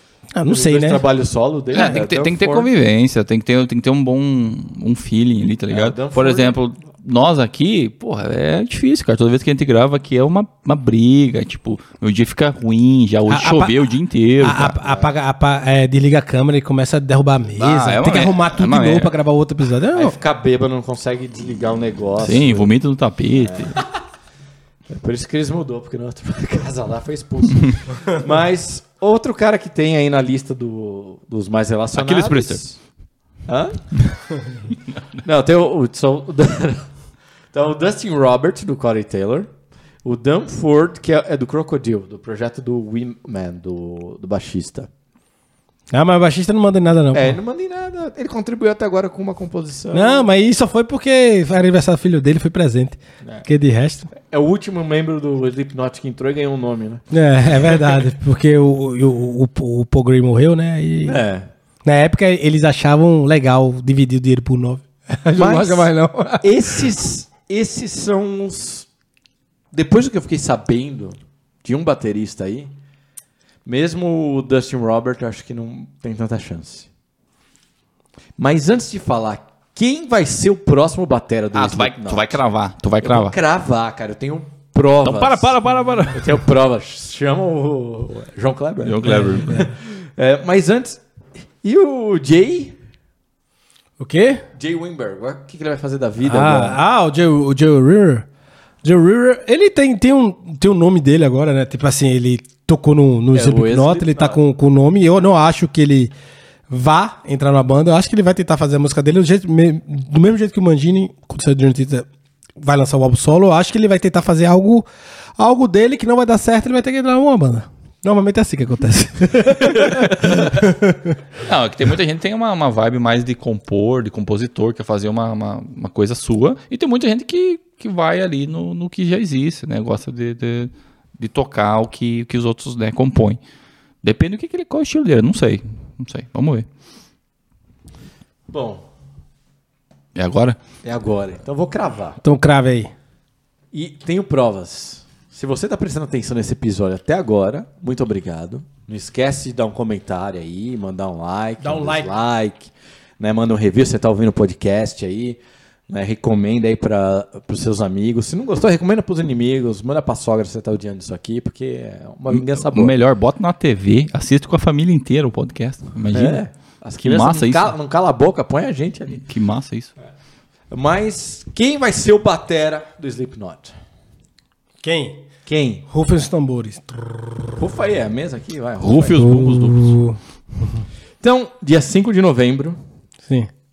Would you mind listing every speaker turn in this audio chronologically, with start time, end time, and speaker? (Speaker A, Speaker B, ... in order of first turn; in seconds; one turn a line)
Speaker A: 0.3-1.0
Speaker B: 0.5-2.7
Speaker C: 1.7-14.8
Speaker B: 5.7-6.5
Speaker A: 13.3-13.8
Speaker A: 14.4-20.1
Speaker B: 14.8-15.1
Speaker C: 17.6-19.1
Speaker B: 19.9-22.7
Speaker C: 22.2-23.8
Speaker B: 23.4-23.9
Speaker B: 24.9-32.8
Speaker C: 31.9-32.6
Speaker B: 33.5-34.0
Speaker B: 35.2-36.9
Speaker B: 37.5-39.5
Speaker B: 40.0-44.9
Speaker A: 45.9-47.4
Speaker B: 47.1-50.3
Speaker A: 49.9-54.1
Speaker B: 54.1-57.0
Speaker A: 57.1-61.2
Speaker B: 57.7-57.9
Speaker B: 61.0-61.5
Speaker A: 61.8-66.8
Speaker B: 65.3-65.9
Speaker B: 66.4-68.9
Speaker B: 69.7-72.7
Speaker B: 73.6-76.9
Speaker B: 78.4-82.4
Speaker C: 81.5-83.3
Speaker B: 83.0-85.5
Speaker C: 85.0-86.4
Speaker B: 86.1-91.0
Speaker C: 88.8-89.7
Speaker A: 89.0-89.7
Speaker B: 91.6-92.8
Speaker A: 94.0-94.4
Speaker B: 94.5-96.8
Speaker A: 96.2-98.2
Speaker A: 98.8-106.1
Speaker B: 103.3-104.4
Speaker A: 106.7-112.1
Speaker A: 112.6-114.8
Speaker A: 115.4-121.2
Speaker C: 121.4-133.4
Speaker C: 134.0-136.7
Speaker B: 138.5-138.8
Speaker C: 140.1-140.6
Speaker B: 140.8-142.2
Speaker A: 142.2-142.9
Speaker B: 143.7-162.9
Speaker A: 151.6-152.1
Speaker C: 162.3-166.4
Speaker B: 166.1-169.2
Speaker C: 167.0-167.7
Speaker C: 169.2-169.9
Speaker B: 170.7-173.7
Speaker A: 174.8-175.2
Speaker B: 175.4-175.9
Speaker A: 175.9-177.6
Speaker B: 177.6-179.3
Speaker C: 178.8-180.0
Speaker A: 179.2-180.8
Speaker B: 181.2-182.8